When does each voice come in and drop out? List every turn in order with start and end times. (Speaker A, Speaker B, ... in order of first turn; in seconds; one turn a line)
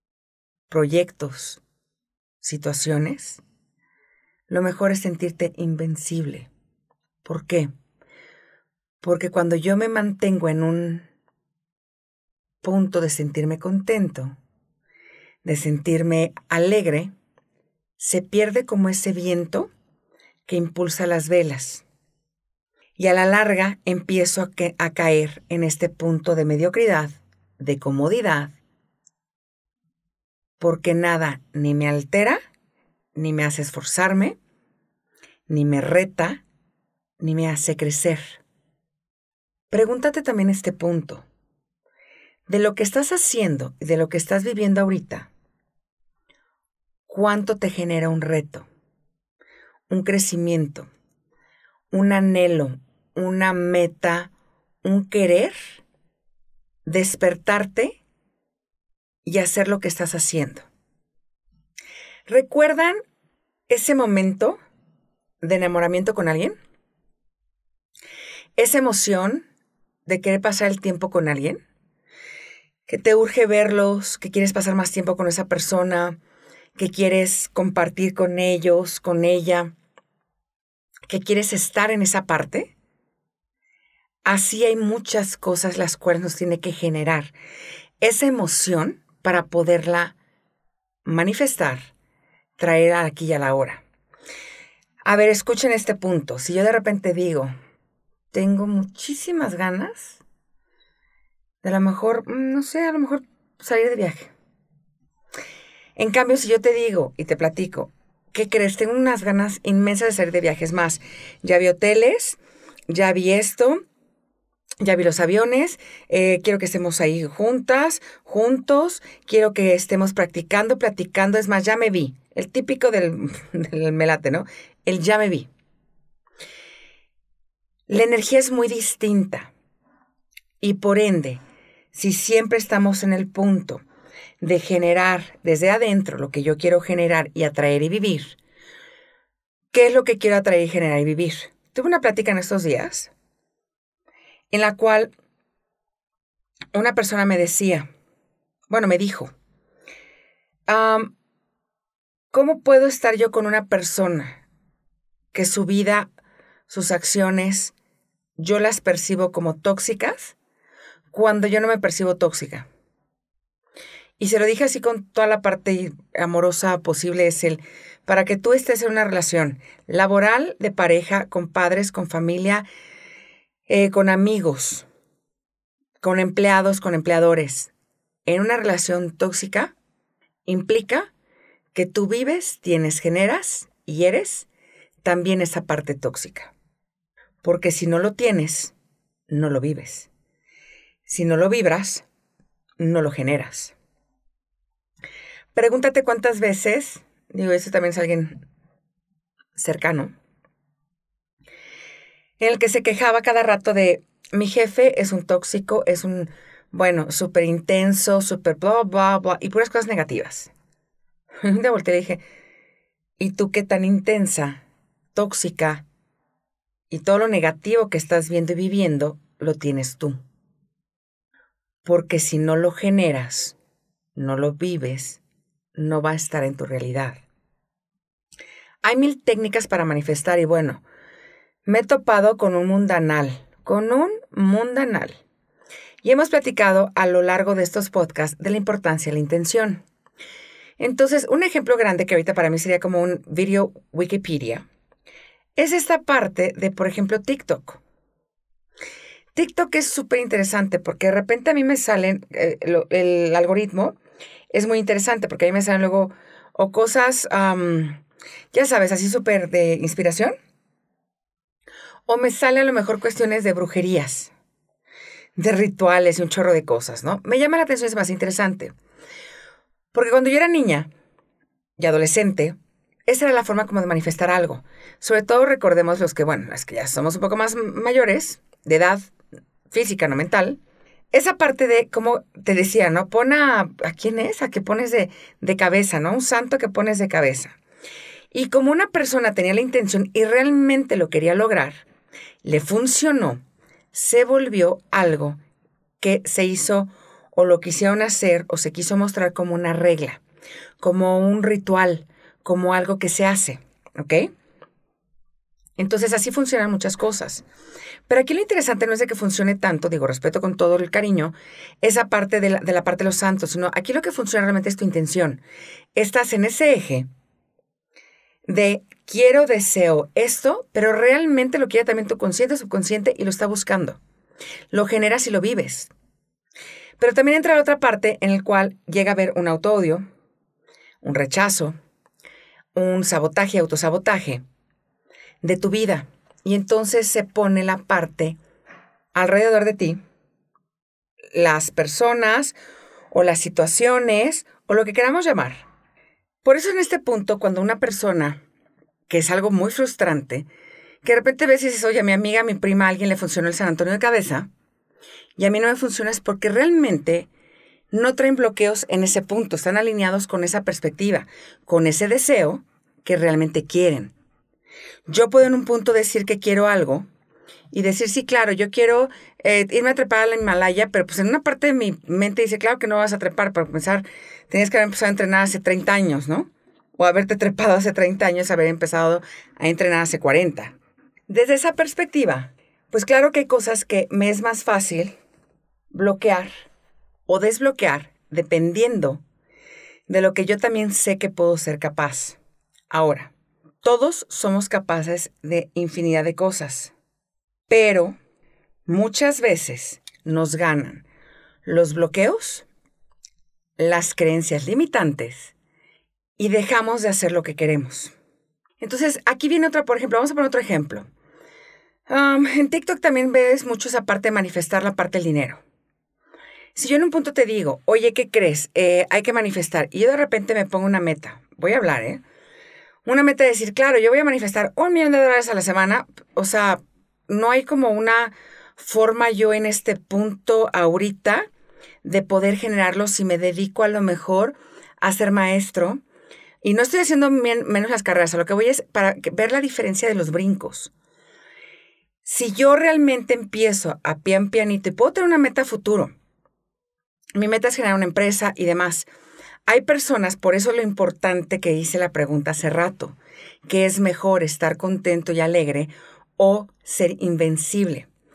Speaker A: 0.7-1.6
Speaker A: 2.4-3.4
Speaker A: 4.5-6.5
Speaker A: 7.2-7.7
Speaker A: 9.0-11.1
Speaker A: 12.6-14.4
Speaker A: 15.4-17.1
Speaker A: 18.0-19.7
Speaker A: 20.5-21.9
Speaker A: 23.0-28.6
Speaker A: 30.6-32.4
Speaker A: 33.1-34.4
Speaker A: 35.5-36.4
Speaker A: 37.2-38.4
Speaker A: 39.7-41.3
Speaker A: 42.5-45.3
Speaker A: 47.1-48.7
Speaker A: 49.9-50.9
Speaker A: 51.9-54.3
Speaker A: 54.8-55.8
Speaker A: 56.9-58.0
Speaker A: 59.2-60.7
Speaker A: 62.3-63.0
Speaker A: 63.7-64.6
Speaker A: 65.4-66.6
Speaker A: 68.6-69.5
Speaker A: 70.1-71.6
Speaker A: 72.9-76.2
Speaker A: 76.8-79.7
Speaker A: 81.1-82.7
Speaker A: 84.2-87.3
Speaker A: 88.0-90.2
Speaker A: 91.0-91.9
Speaker A: 92.6-93.8
Speaker A: 95.0-97.5
Speaker A: 98.3-100.2
Speaker A: 101.6-104.3
Speaker A: 106.0-112.4
Speaker A: 112.9-113.8
Speaker A: 114.8-125.5
Speaker A: 127.9-129.5
Speaker A: 130.6-131.4
Speaker A: 131.9-133.8
Speaker A: 134.4-138.4
Speaker A: 139.7-143.1
Speaker A: 144.5-145.1
Speaker A: 146.7-147.9
Speaker A: 148.7-149.3
Speaker A: 150.7-151.1
Speaker A: 152.3-154.4
Speaker A: 155.3-156.1
Speaker A: 156.7-157.7
Speaker A: 158.4-160.4
Speaker A: 161.1-162.7
Speaker A: 164.2-172.7
Speaker A: 173.7-174.9
Speaker A: 176.0-177.7
Speaker A: 178.3-179.7
Speaker A: 180.5-181.1
Speaker A: 181.7-184.5
Speaker A: 185.0-186.5
Speaker A: 187.4-188.8
Speaker A: 189.3-190.1
Speaker A: 191.1-192.1
Speaker A: 192.8-193.7
Speaker A: 195.5-198.4
Speaker A: 199.6-200.1
Speaker A: 202.4-210.5
Speaker A: 211.4-212.2
Speaker A: 213.2-214.6
Speaker A: 215.1-215.9
Speaker A: 216.9-220.2
Speaker A: 221.8-223.6
Speaker A: 224.2-225.2
Speaker A: 225.8-227.2
Speaker A: 228.8-230.8
Speaker A: 231.7-235.2
Speaker A: 236.0-239.8
Speaker A: 240.8-244.7
Speaker A: 245.6-247.8
Speaker A: 249.3-254.0
Speaker A: 254.5-258.0
Speaker A: 258.5-260.4
Speaker A: 262.1-264.3
Speaker A: 265.4-268.7
Speaker A: 269.9-270.9
Speaker A: 271.8-272.6
Speaker A: 273.1-279.1
Speaker A: 279.7-280.6
Speaker A: 281.1-287.6
Speaker A: 288.3-291.9
Speaker A: 292.4-295.4
Speaker A: 296.0-300.2
Speaker A: 300.8-304.3
Speaker A: 305.8-307.4
Speaker A: 308.1-315.4
Speaker A: 315.9-317.1
Speaker A: 318.5-324.0
Speaker A: 324.7-325.9
Speaker A: 327.0-330.0
Speaker A: 331.0-331.8
Speaker A: 332.8-334.4
Speaker A: 335.4-338.4
Speaker A: 339.1-340.0
Speaker A: 341.3-342.6
Speaker A: 343.1-345.6
Speaker A: 346.4-348.4
Speaker A: 349.1-350.5
Speaker A: 351.0-354.5
Speaker A: 355.4-357.3
Speaker A: 357.9-364.1
Speaker A: 365.1-367.1
Speaker A: 367.7-380.7
Speaker A: 381.3-385.2
Speaker A: 385.9-386.5
Speaker A: 387.3-389.2
Speaker A: 390.1-392.4
Speaker A: 392.9-396.9
Speaker A: 397.7-398.2
Speaker A: 398.9-401.0
Speaker A: 401.6-402.7
Speaker A: 403.8-405.6
Speaker A: 406.4-408.1
Speaker A: 408.8-411.1
Speaker A: 412.1-415.6
Speaker A: 416.8-422.2
Speaker A: 423.1-431.5
Speaker A: 432.0-436.0
Speaker A: 436.6-440.9
Speaker A: 442.2-446.1
Speaker A: 447.4-449.1
Speaker A: 449.7-458.1